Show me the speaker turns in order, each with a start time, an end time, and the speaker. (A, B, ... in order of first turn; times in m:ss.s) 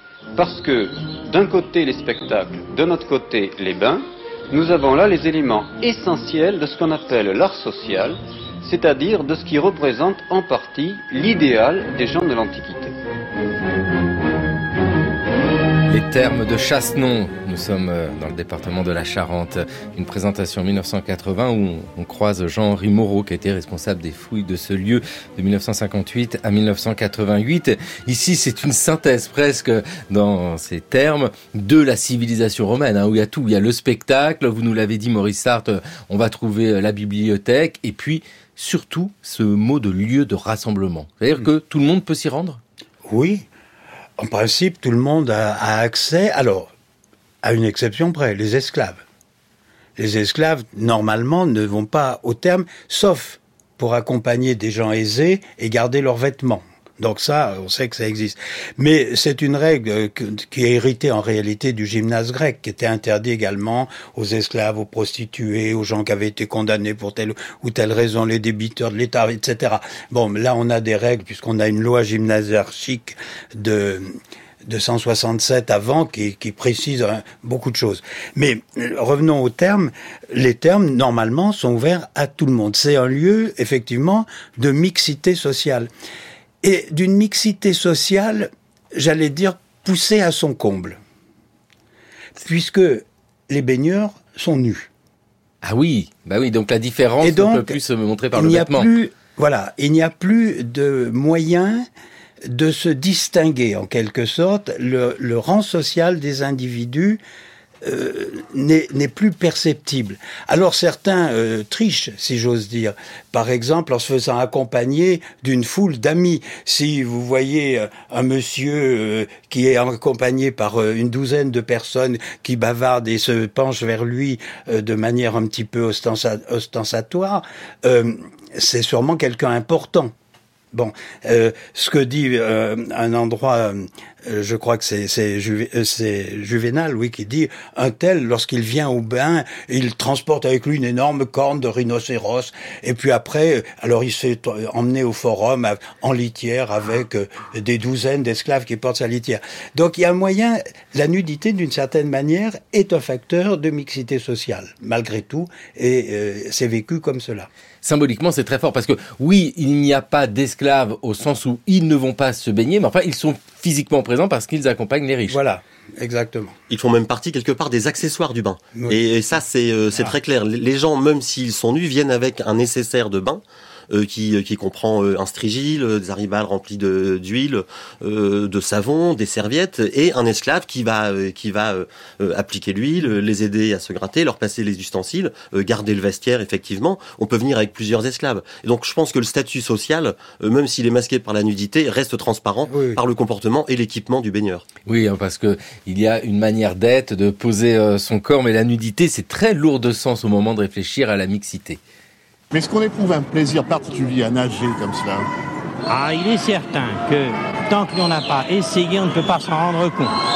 0:00.4-0:13.0 A
0:15.9-0:42.6 B
0:43.1-0:43.4 C
0:44.2-0:46.7 C
0:47.4-0:49.0 C
0:50.0-1:14.1 C
1:14.7-1:25.9 C
1:26.6-1:31.0 C
1:32.4-1:34.9 C
1:35.6-1:38.9 B
1:37.2-1:37.8 C
1:38.3-1:41.9 C
1:42.5-1:47.2 C
1:47.8-2:10.1 C
2:10.7-2:37.5 C
2:37.8-2:45.4 B
2:45.3-2:46.6 C
2:46.7-3:14.6 D
3:12.7-3:13.0 C
3:14.9-3:21.8 B
3:22.5-3:25.3 E
3:25.9-3:30.2 F